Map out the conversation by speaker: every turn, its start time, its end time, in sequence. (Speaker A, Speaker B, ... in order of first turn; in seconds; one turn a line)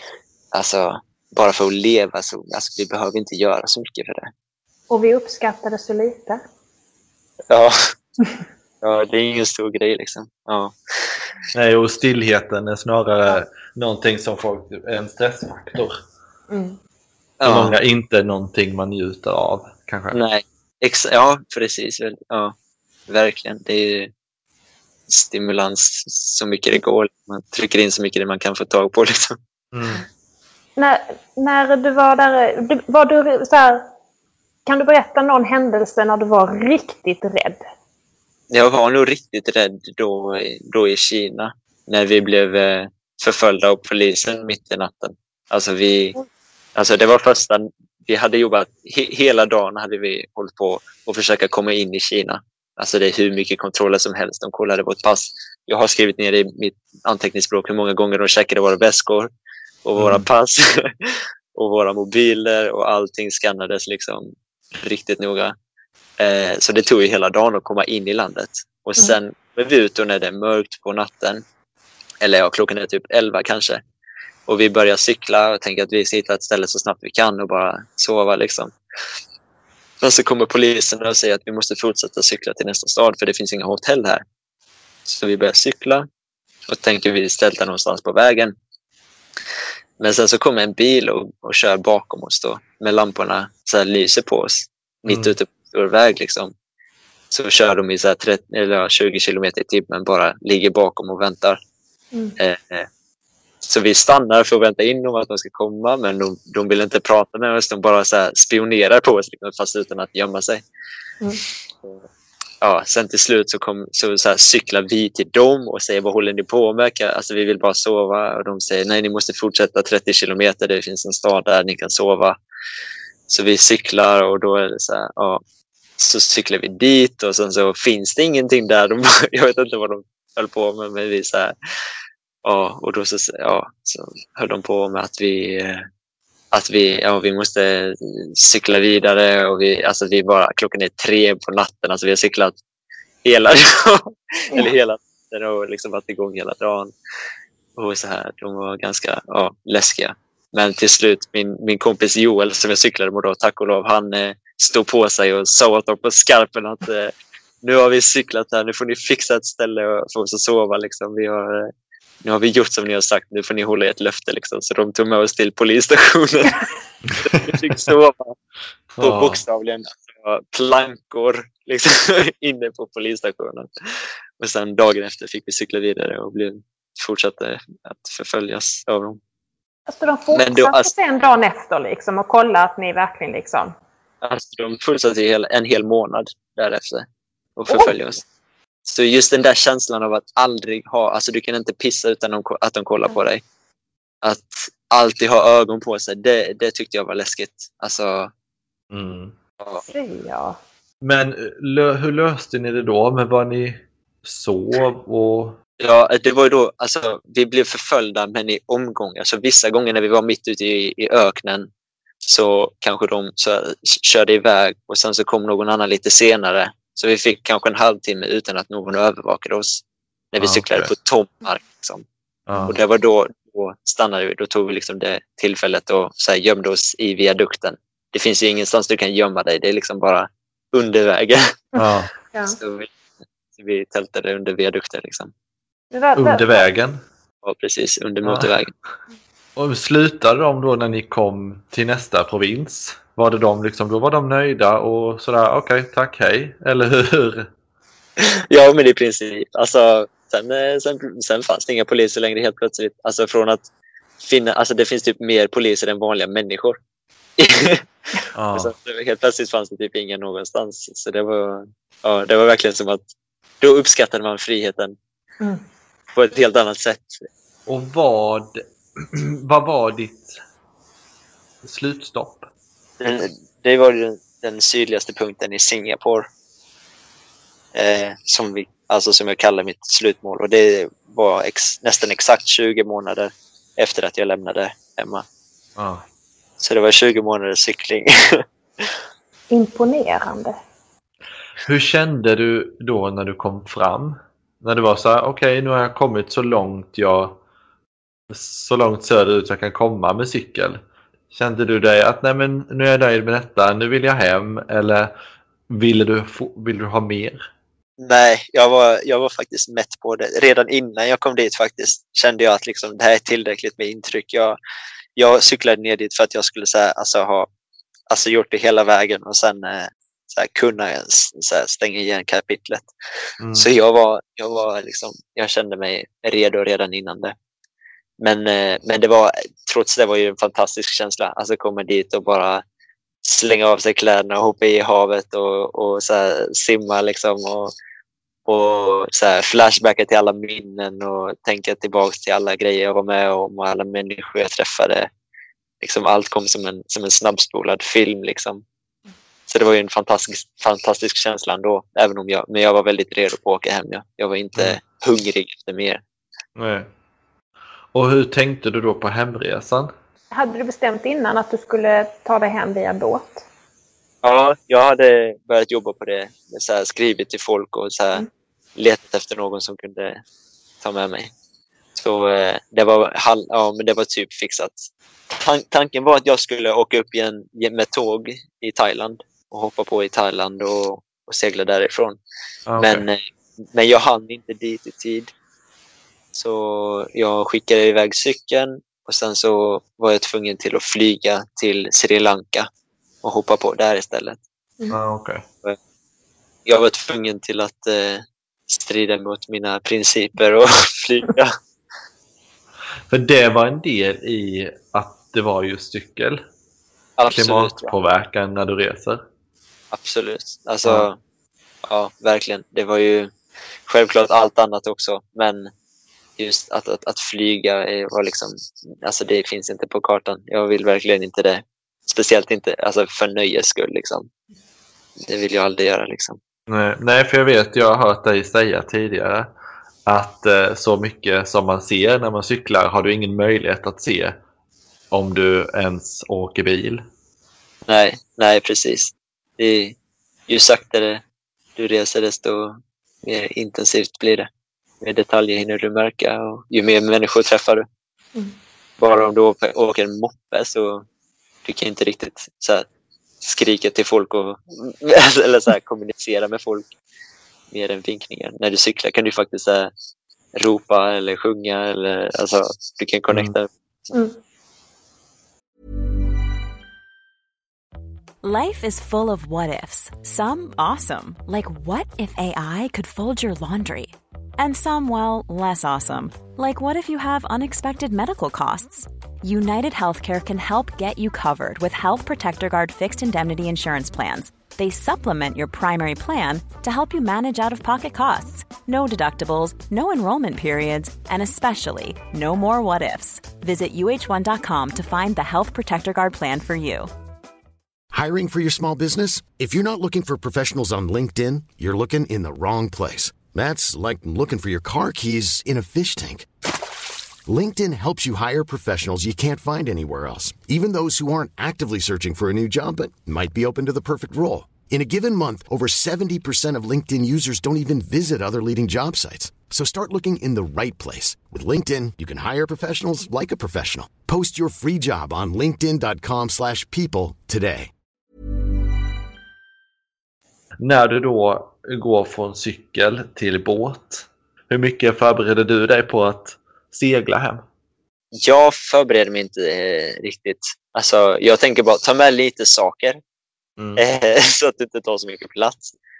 Speaker A: 0.5-4.3
Speaker B: 4.9-6.4
Speaker A: 7.5-7.9
Speaker A: 8.8-11.2
Speaker C: 11.5-16.0
Speaker B: 16.5-16.8
Speaker A: 17.4-17.7
Speaker C: 17.4-20.2
Speaker A: 20.1-22.5
Speaker A: 23.1-24.1
Speaker A: 25.1-29.4
Speaker C: 29.7-30.0
Speaker B: 30.8-33.8
Speaker B: 34.6-37.6
Speaker A: 38.5-46.2
Speaker A: 46.7-59.3
Speaker A: 59.8-65.5
Speaker C: 60.0-60.2
Speaker A: 66.2-71.4
Speaker A: 72.2-73.8
Speaker A: 74.5-78.7
Speaker A: 80.0-84.2
Speaker A: 85.0-86.1
Speaker A: 86.7-88.5
Speaker A: 90.0-96.5
Speaker C: 95.1-95.3
Speaker A: 97.3-101.6
Speaker A: 102.4-102.9
Speaker A: 103.6-110.6
Speaker A: 112.6-122.4
Speaker A: 123.3-125.4
Speaker A: 126.0-131.5
Speaker A: 132.4-135.9
Speaker A: 136.5-142.6
Speaker A: 143.2-146.9
Speaker A: 147.8-161.7
Speaker A: 162.2-166.7
Speaker C: 167.1-167.4
Speaker A: 167.2-168.3
Speaker C: 168.9-169.4
Speaker A: 169.0-173.7
Speaker A: 174.4-179.2
Speaker B: 179.9-183.7
Speaker A: 180.3-180.9
Speaker A: 184.2-188.2
Speaker B: 187.7-187.9
Speaker A: 188.9-193.4
Speaker A: 194.2-198.3
Speaker C: 198.9-199.3
Speaker B: 199.9-200.6
Speaker C: 201.0-205.6
Speaker A: 205.8-211.7
Speaker A: 212.2-222.0
Speaker C: 220.4-220.9
Speaker C: 222.5-222.7
Speaker A: 222.6-231.6
Speaker B: 231.8-232.6
Speaker C: 231.8-232.1
Speaker A: 232.5-232.9
Speaker A: 233.6-235.3
Speaker B: 235.9-236.6
Speaker C: 236.2-237.0
Speaker A: 237.4-238.7
Speaker C: 238.2-238.6
Speaker C: 239.6-247.5
Speaker A: 248.2-253.7
Speaker A: 254.2-256.8
Speaker A: 257.4-263.1
Speaker C: 258.4-258.7
Speaker A: 263.6-264.9
Speaker A: 266.1-267.2
Speaker C: 267.7-270.4
Speaker C: 271.6-272.5
Speaker A: 273.0-276.3
Speaker A: 277.7-285.2
Speaker C: 285.8-286.0
Speaker A: 286.6-288.9
Speaker B: 289.5-290.6
Speaker C: 291.6-297.4
Speaker C: 298.3-305.1
Speaker C: 305.7-307.4
Speaker A: 308.0-314.6
Speaker A: 315.1-317.5
Speaker A: 318.1-322.9
Speaker C: 323.4-323.7
Speaker A: 323.5-327.3
Speaker A: 328.2-332.6
Speaker A: 333.2-337.7
Speaker A: 338.5-345.1
Speaker A: 345.8-348.6
Speaker A: 349.5-356.0
Speaker C: 356.6-356.9
Speaker C: 357.9-359.9
Speaker B: 360.3-363.4
Speaker A: 364.2-370.2
Speaker A: 370.8-371.3
Speaker A: 371.9-382.2
Speaker C: 382.7-383.1
Speaker A: 382.8-385.3
Speaker A: 386.3-392.7
Speaker A: 393.2-394.4
Speaker C: 394.9-395.4
Speaker A: 396.6-401.5
Speaker C: 403.1-406.4
Speaker A: 407.2-407.9
Speaker C: 407.3-409.2
Speaker A: 409.9-411.2
Speaker A: 411.9-413.3
Speaker A: 413.9-415.7
Speaker A: 416.4-424.3
Speaker A: 425.2-426.4
Speaker C: 426.7-429.5
Speaker C: 430.1-434.4
Speaker C: 435.1-437.0
Speaker A: 437.9-439.9
Speaker A: 440.5-441.2
Speaker A: 441.8-444.5
Speaker A: 445.0-447.9
Speaker A: 449.0-451.0
Speaker A: 451.6-452.9
Speaker A: 453.4-456.9
Speaker A: 457.7-459.9
Speaker A: 460.6-463.7
Speaker D: 468.4-497.1
Speaker E: 498.1-506.5
Speaker E: 507.5-527.9
Speaker C: 530.8-537.6
Speaker A: 538.3-543.2
Speaker C: 543.8-544.0
Speaker A: 544.0-545.9